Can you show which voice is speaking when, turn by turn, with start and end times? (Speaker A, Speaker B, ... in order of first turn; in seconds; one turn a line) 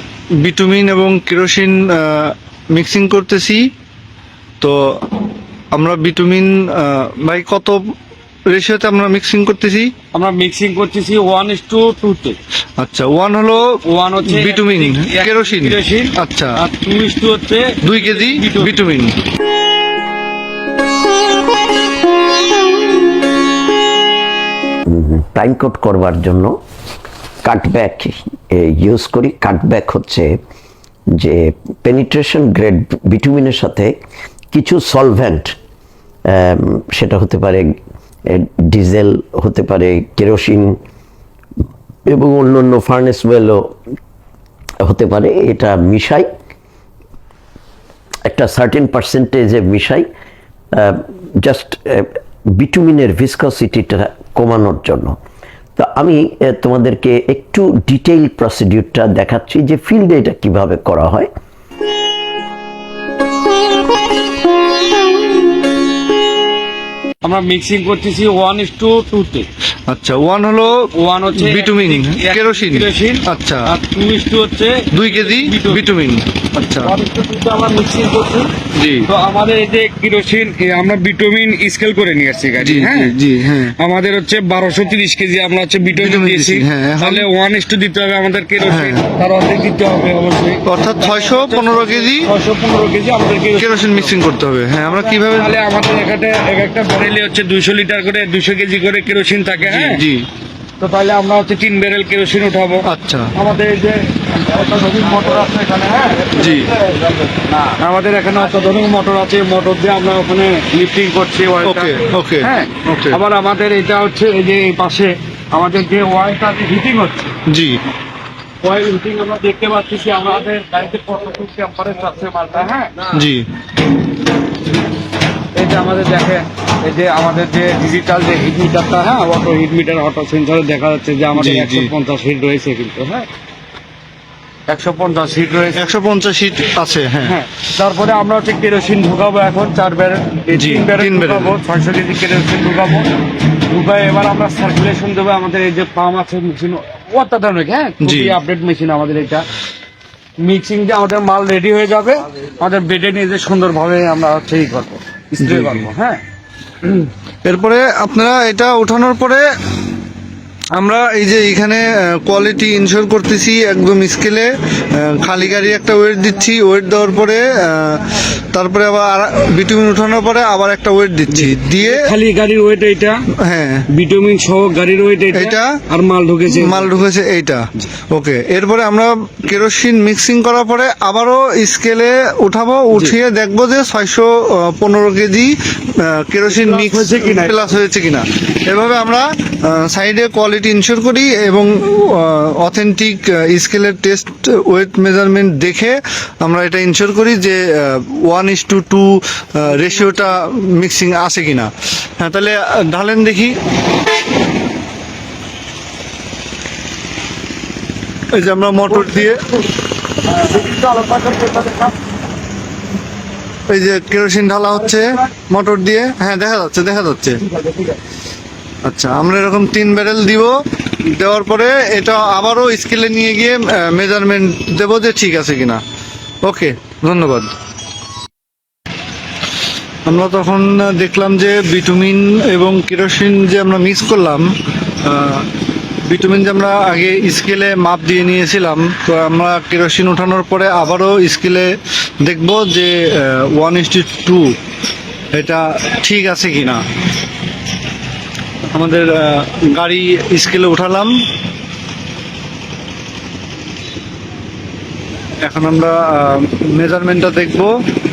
Speaker A: 0.4-3.6
Speaker A: 5.7-7.8
Speaker A: 8.5-9.9
Speaker B: 10.1-12.4
Speaker A: 12.8-16.6
Speaker B: 13.6-18.8
Speaker A: 17.8-19.1
Speaker C: 24.9-26.6
Speaker C: 27.4-30.4
Speaker C: 31.1-33.9
Speaker C: 34.5-35.5
Speaker C: 36.3-37.8
Speaker C: 38.3-40.8
Speaker C: 42.1-43.8
Speaker C: 44.8-46.3
Speaker C: 48.2-50.1
Speaker C: 50.7-55.2
Speaker C: 55.8-61.3
Speaker B: 67.2-69.5
Speaker A: 69.9-73.7
Speaker B: 70.7-75.8
Speaker A: 74.9-76.9
Speaker B: 76.8-78.5
Speaker A: 78.7-79.1
Speaker B: 79.1-83.2
Speaker A: 82.6-83.7
Speaker B: 83.7-94.1
Speaker A: 86.0-87.3
Speaker A: 88.7-89.0
Speaker A: 90.7-92.3
Speaker A: 93.5-95.5
Speaker B: 94.8-100.0
Speaker A: 99.7-100.2
Speaker B: 100.8-117.3
Speaker A: 102.8-103.3
Speaker A: 106.3-106.7
Speaker A: 111.6-113.2
Speaker A: 117.5-117.8
Speaker B: 118.6-123.1
Speaker A: 123.1-123.4
Speaker B: 125.5-133.3
Speaker A: 131.3-131.9
Speaker B: 134.7-135.9
Speaker A: 135.7-137.3
Speaker B: 137.2-143.1
Speaker A: 140.5-141.5
Speaker B: 143.7-149.5
Speaker A: 148.0-148.3
Speaker B: 150.4-156.2
Speaker A: 155.4-155.8
Speaker A: 157.4-159.4
Speaker A: 160.7-172.0
Speaker B: 171.3-173.2
Speaker A: 173.4-173.8
Speaker B: 173.9-177.0
Speaker A: 175.3-175.8
Speaker A: 176.5-203.6
Speaker B: 186.5-187.6
Speaker A: 208.3-209.4
Speaker B: 210.3-212.0
Speaker A: 213.7-217.4
Speaker B: 217.4-218.0
Speaker A: 218.8-220.5
Speaker A: 221.1-225.8
Speaker A: 226.4-227.5
Speaker A: 230.1-234.5
Speaker A: 235.0-235.5
Speaker A: 236.1-241.7
Speaker A: 242.2-244.5
Speaker A: 245.3-246.8
Speaker A: 248.7-251.1
Speaker A: 255.4-257.7